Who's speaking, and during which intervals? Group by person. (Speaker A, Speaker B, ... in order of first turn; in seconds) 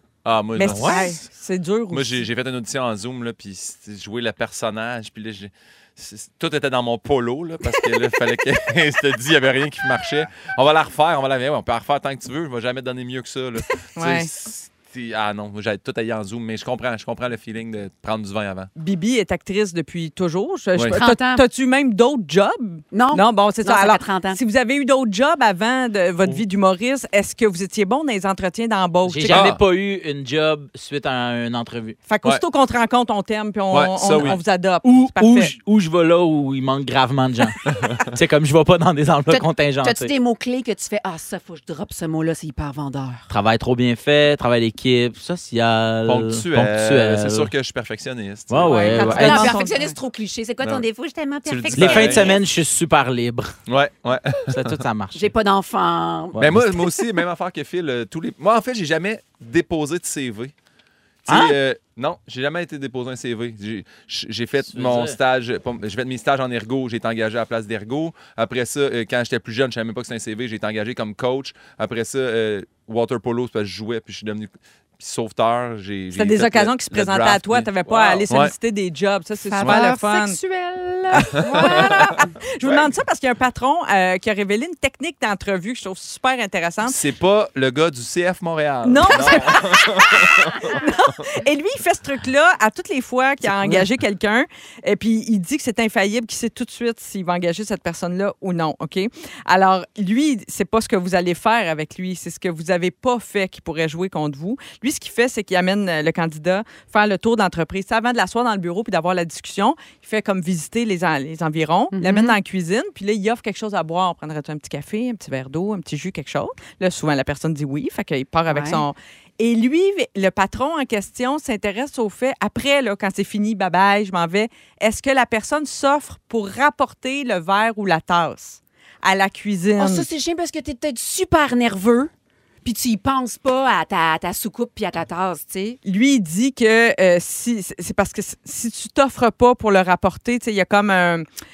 Speaker A: 0.2-1.2, 1.9-18.7, 29.3-29.6, 33.7-34.4, 37.7-38.1, 46.0-49.4, 51.4-52.4, 53.7-54.8, 56.4-60.5, 61.2-78.5, 79.6-79.8, 81.3-82.0, 82.6-82.9, 86.8-90.8
Speaker B: 0.6-2.2, 13.9-14.3, 18.8-29.5, 32.1-35.5, 48.6-50.0, 76.1-80.4, 81.2-87.0, 88.8-130.1, 135.8-141.2
Speaker C: 0.7-1.0, 29.1-32.0, 34.2-37.6, 38.1-40.1, 43.3-47.5, 48.5-49.6, 51.7-53.6, 54.5-55.3, 56.3-56.6, 61.3-61.6, 64.7-65.2
Speaker D: 20.9-21.4, 22.9-24.4, 39.3-43.3, 48.9-52.4, 55.1-57.1, 79.4-82.3, 111.9-112.4, 118.5-118.8, 129.8-132.1, 132.6-135.8